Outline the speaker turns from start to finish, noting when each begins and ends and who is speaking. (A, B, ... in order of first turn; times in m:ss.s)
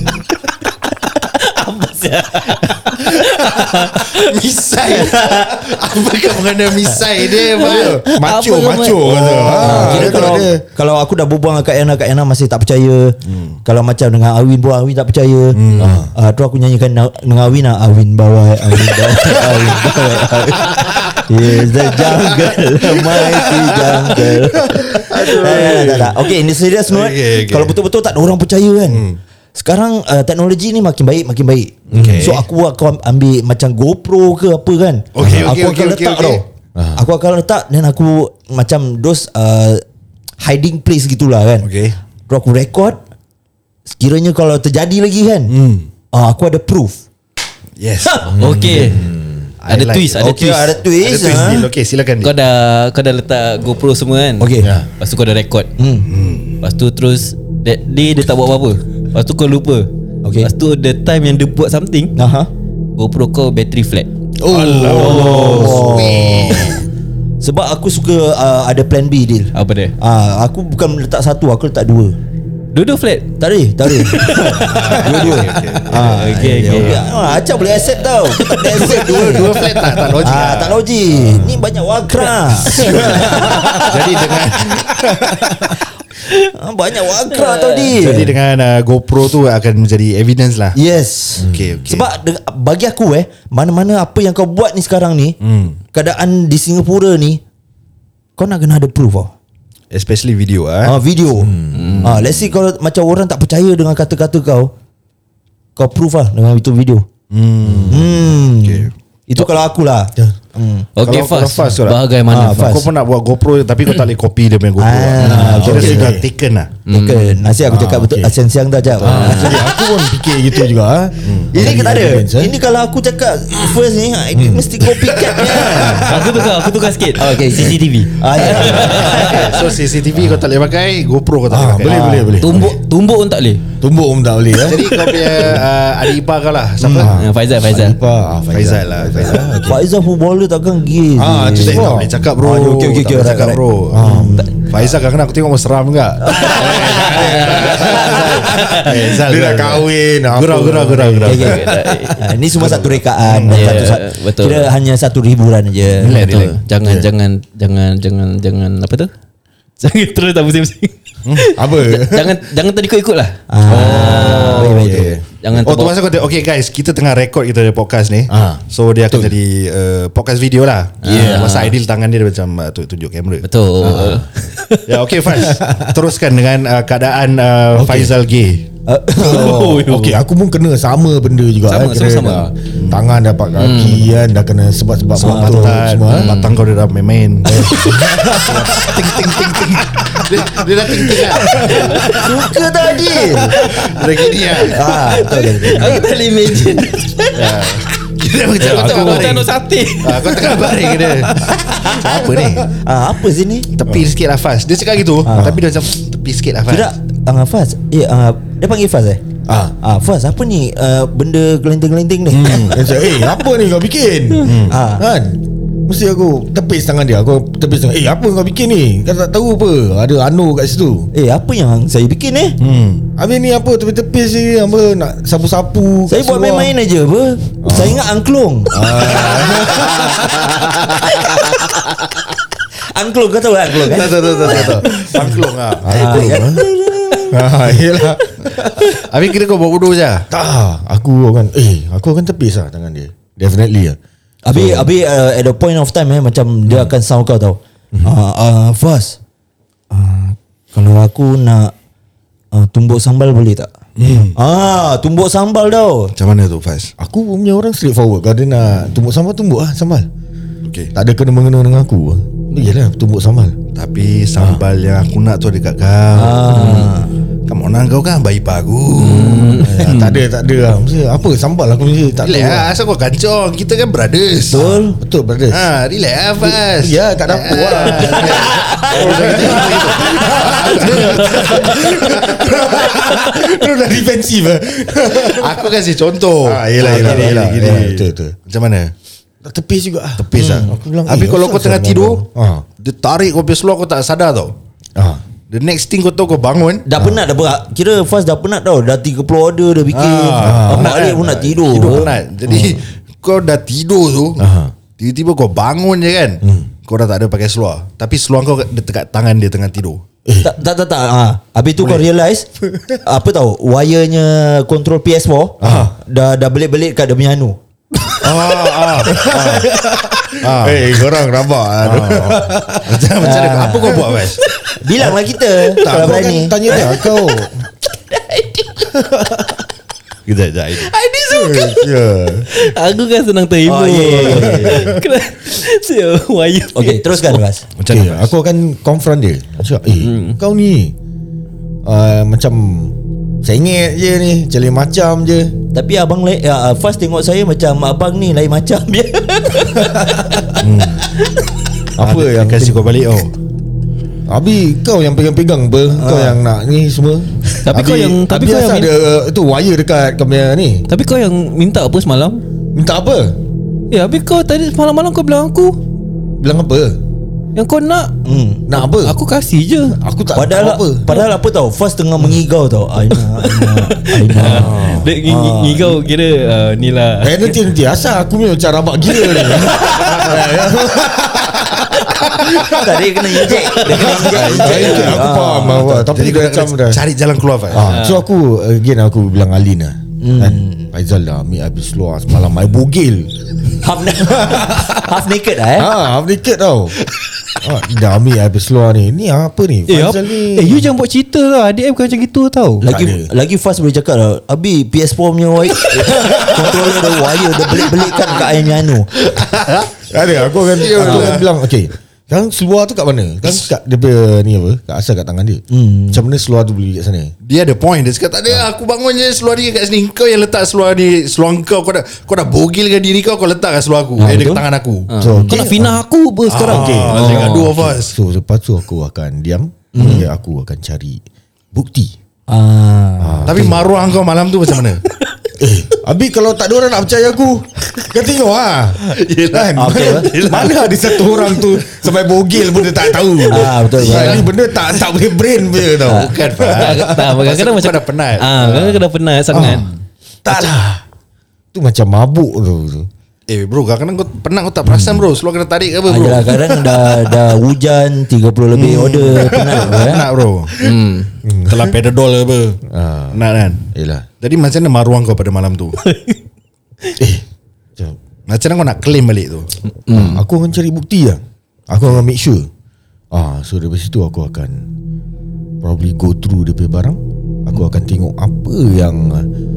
0:01.1-0:04.3 A
0:03.7-0:08.0 B
0:04.9-0:05.8 C
0:07.6-0:10.6 D
0:08.0-0:10.2 A
0:09.1-0:10.3 B
0:09.5-0:15.6 C
0:13.3-0:13.6 B
0:15.5-0:16.0 B
0:15.8-0:16.1 D
0:16.1-0:36.4 C
0:22.0-0:22.5 B
0:23.1-0:23.9 B
0:24.4-0:26.1 D
0:24.9-0:26.1 B
0:26.9-0:27.8 B
0:28.8-0:29.2 B
0:31.9-0:32.4 B
0:31.9-0:32.4 D
0:35.1-0:36.4 B
0:35.2-0:35.6 D
0:36.8-0:37.1 D
0:37.0-0:39.8 C
0:40.4-0:41.7 C
0:41.6-0:42.0 B
0:42.3-0:43.0 C
0:43.9-0:45.5 C
0:45.5-0:45.9 B
0:46.1-0:47.0 C
0:47.8-0:48.2 B
0:48.0-0:48.4 C
0:48.2-0:49.5 D
0:48.4-0:49.1 A
0:49.6-0:50.2 B
0:49.7-0:50.8 A
0:50.2-0:51.7 C
0:50.9-0:52.3 B
0:52.2-0:55.7 A
0:54.4-0:54.7 C
0:54.6-0:54.9 D
0:55.8-0:56.1 C
0:56.1-0:56.6 B
0:56.6-0:59.9 A
1:00.2-1:00.5 C
1:00.4-1:02.1 A
1:02.2-1:02.5 C
1:03.0-1:04.1 A
1:04.4-1:06.8 D
1:04.4-1:06.8 B
1:04.9-1:06.8 C
1:05.0-1:05.7 A
1:07.4-1:12.2 C
1:09.5-1:09.9 A
1:12.7-1:13.3 A
1:13.4-1:24.0 C
1:13.9-1:17.1 A
1:14.6-1:17.2 B
1:18.4-1:19.2 A
1:18.5-1:20.8 B
1:21.2-1:21.6 D
1:22.7-1:24.0 D
1:22.7-1:25.2 B
1:22.7-1:23.6 A
1:24.7-1:25.8 D
1:26.2-1:28.3 C
1:27.3-1:28.0 A
1:27.9-1:30.8 B
1:30.7-1:35.4 C
1:31.4-1:31.8 D
1:31.4-1:32.1 B
1:35.4-1:35.8 B
1:35.9-1:37.4 C
1:38.4-1:39.3 C
1:39.9-1:41.0 B
1:40.8-1:44.7 C
1:41.4-1:42.0 D
1:41.7-1:42.2 A
1:42.0-1:42.3 B
1:45.8-1:47.1 C
1:47.3-1:48.9 B
1:47.6-1:48.2 D
1:47.9-1:50.9 C
1:51.0-1:52.8 A
1:51.0-1:56.7 B
1:52.3-1:52.9 C
1:54.8-1:56.2 C
1:55.2-1:56.3 D
1:55.3-1:55.6 A
1:56.9-1:57.4 A
1:56.9-1:59.9 C
1:57.6-1:58.4 D
1:59.0-2:02.6 D
1:59.0-1:59.6 A
2:01.2-2:01.5 B
2:01.5-2:06.4 C
2:04.3-2:06.4 D
2:05.5-2:06.1 B
2:06.0-2:09.5 A
2:07.1-2:09.7 C
2:08.6-2:12.2 B
2:10.1-2:10.4 D
2:11.5-2:12.8 D
2:11.9-2:12.3 C
2:12.4-2:13.6 A
2:13.8-2:15.6 D
2:14.6-2:17.2 B
2:16.8-2:17.1 C
2:16.9-2:19.9 D
2:17.1-2:18.0 A
2:18.5-2:19.5 B
2:19.6-2:24.6 C
2:21.1-2:22.1 D
2:21.6-2:31.6 B
2:23.9-2:24.6 D
2:26.2-2:27.4 C
2:26.4-2:33.0 D
2:27.0-2:28.9 A
2:31.2-2:36.2 C
2:31.3-2:32.2 A
2:32.6-2:33.9 B
2:33.5-2:34.7 A
2:35.9-2:36.6 B
2:36.0-2:39.1 A
2:36.8-2:37.1 D
2:39.8-2:46.0 A
2:41.5-2:42.4 D
2:43.5-2:45.2 C
2:43.7-2:45.2 D
2:44.3-2:53.5 B
2:48.3-2:49.3 D
2:51.0-2:51.7 A
2:51.0-2:51.4 D
2:53.4-2:54.9 A
2:53.8-2:54.2 D
2:54.8-2:58.7 B
2:55.6-2:55.9 D
2:57.7-2:58.1 D
2:58.9-2:59.7 C
2:59.1-3:06.3 D
2:59.1-3:00.2 A
3:01.7-3:02.5 A
3:02.8-3:03.0 B
3:03.6-3:04.1 A
3:05.2-3:05.8 C
3:05.2-3:07.8 B
3:06.1-3:06.6 A
3:07.5-3:12.5 D
3:07.5-3:10.0 A
3:08.5-3:12.2 B
3:11.6-3:12.3 A
3:12.0-3:13.7 C
3:13.0-3:13.8 D
3:13.5-3:15.1 B
3:13.6-3:14.0 A
3:14.6-3:16.1 C
3:14.8-3:17.7 A
3:17.3-3:22.7 B
3:18.6-3:21.6 A
3:18.8-3:19.3 D
3:21.7-3:23.7 C
3:23.7-3:26.9 B
3:25.2-3:25.6 C
3:26.7-3:29.2 C
3:29.4-3:29.8 D
3:29.8-3:32.9 C
3:32.3-3:32.8 B
3:32.4-3:41.1 D
3:34.4-3:34.8 B
3:34.6-3:35.0 C
3:41.1-3:42.6 C
3:42.6-3:43.1 B
3:43.2-3:46.7 D
3:46.1-3:51.7 C
3:47.6-3:48.1 D
3:48.7-3:50.4 D
3:49.3-3:51.5 B
3:52.9-3:55.3 C
3:53.8-3:56.3 B
3:54.4-3:56.6 D
3:55.9-3:57.4 C
3:57.3-3:58.9 D
3:58.8-4:00.2 B
4:00.3-4:04.0 D
4:04.4-4:09.2 C
4:04.5-4:04.9 D
4:09.9-4:11.7 C
4:12.5-4:13.7 C
4:14.0-4:14.4 B
4:14.3-4:16.1 C
4:16.2-4:16.9 B
4:17.0-4:20.1 D
4:20.6-4:20.9 B
4:20.9-4:23.6 D
4:23.7-4:26.9 B
4:26.1-4:27.1 C
4:27.5-4:29.7 B
4:29.0-4:30.2 A
4:29.6-4:32.7 D
4:32.2-4:34.7 B
4:34.5-4:35.0 C
4:34.5-4:35.6 D
4:35.5-4:43.0 B
4:36.4-4:45.7 D
4:38.2-4:39.7 C
4:45.2-4:48.9 B
4:46.4-4:48.4 D
4:49.4-4:52.6 D
4:50.2-4:52.2 B
4:50.4-4:50.7 C
4:52.8-4:54.5 B
4:55.0-4:55.2 D
4:55.5-4:56.8 B
4:56.8-5:02.8 C
4:57.0-4:57.2 D
4:59.9-5:04.4 B
5:00.4-5:01.1 D
5:01.8-5:02.1 D
5:04.4-5:04.7 D
5:05.0-5:10.0 B
5:06.4-5:06.7 D
5:10.2-5:10.6 D
5:10.4-5:12.5 C
5:13.0-5:17.6 C
5:15.6-5:15.9 D
5:18.2-5:21.0 B
5:19.0-5:23.1 D
5:21.8-5:24.4 B
5:23.2-5:24.1 C
5:24.7-5:26.9 C
5:24.9-5:25.2 D
5:25.7-5:26.2 A
5:25.8-5:27.6 D
5:26.8-5:27.4 A
5:28.1-5:28.8 A
5:28.9-5:29.6 D
5:30.2-5:30.9 B
5:30.8-5:31.9 A
5:31.3-5:32.5 D
5:32.5-5:37.4 A
5:33.6-5:35.0 C
5:34.2-5:35.0 D
5:36.7-5:37.6 C
5:37.8-5:38.3 B
5:37.9-5:40.9 D
5:40.0-5:40.4 A
5:41.8-5:45.5 D
5:45.7-5:50.4 C
5:49.8-5:50.5 D
5:50.6-5:51.1 B
5:52.0-5:53.0 D
5:52.0-5:53.3 B
5:54.3-6:00.8 D
5:55.9-5:56.4 C
5:57.6-5:58.9 A
6:00.9-6:02.4 A
6:02.7-6:03.4 D
6:03.9-6:05.8 A
6:06.4-6:07.0 D
6:07.5-6:08.2 A
6:08.2-6:08.6 C
6:08.7-6:09.2 D
6:08.8-6:10.0 A
6:09.9-6:11.2 D
6:10.3-6:16.0 C
6:13.3-6:17.6 A
6:14.4-6:15.1 D
6:17.2-6:27.0 D
6:19.3-6:20.1 A
6:19.9-6:20.3 C
6:22.2-6:26.0 C
6:23.4-6:25.1 A
6:24.2-6:27.9 B
6:27.7-6:33.3 D
6:27.8-6:28.2 A
6:30.2-6:30.9 C
6:33.8-6:35.9 C
6:34.3-6:35.0 D
6:35.8-6:37.0 D
6:37.6-6:40.9 D
6:39.9-6:42.9 A
6:42.8-6:43.3 D
6:42.8-6:49.1 C
6:46.1-6:46.8 D
6:49.2-6:51.5 B
6:50.1-6:57.3 D
6:51.0-6:51.4 C
6:55.7-6:56.2 C
6:57.4-7:05.1 B
7:04.2-7:04.6 C
7:05.1-7:07.7 A
7:05.2-7:06.0 D
7:06.5-7:08.1 B
7:06.6-7:11.2 D
7:09.9-7:10.2 C
7:10.0-7:10.2 B
7:11.7-7:12.1 D
7:12.5-7:13.8 C
7:13.2-7:13.8 D
7:13.4-7:15.0 B
7:15.6-7:27.3 D
7:19.0-7:21.6 B
7:19.8-7:20.3 C
7:23.4-7:24.5 C
7:23.9-7:24.5 B
7:26.0-7:30.0 B
7:26.0-7:26.3 C
7:26.7-7:29.9 A
7:29.5-7:29.8 D
7:30.4-7:31.0 D
7:31.7-7:33.1 D
7:33.5-7:37.1 B
7:34.8-7:35.2 D
7:36.0-7:40.3 C
7:38.7-7:40.9 B
7:39.6-7:40.1 D
7:40.8-7:42.0 D
7:40.8-7:41.3 A
7:41.7-7:42.8 B
7:42.9-7:44.3 D
7:43.3-7:43.8 B
7:44.4-7:46.0 B
7:46.0-7:46.4 A
7:47.2-7:47.4 D
7:48.5-7:49.7 B
7:49.8-7:50.4 A
7:50.1-7:52.7 D
7:53.3-7:54.8 D
7:55.8-7:59.5 D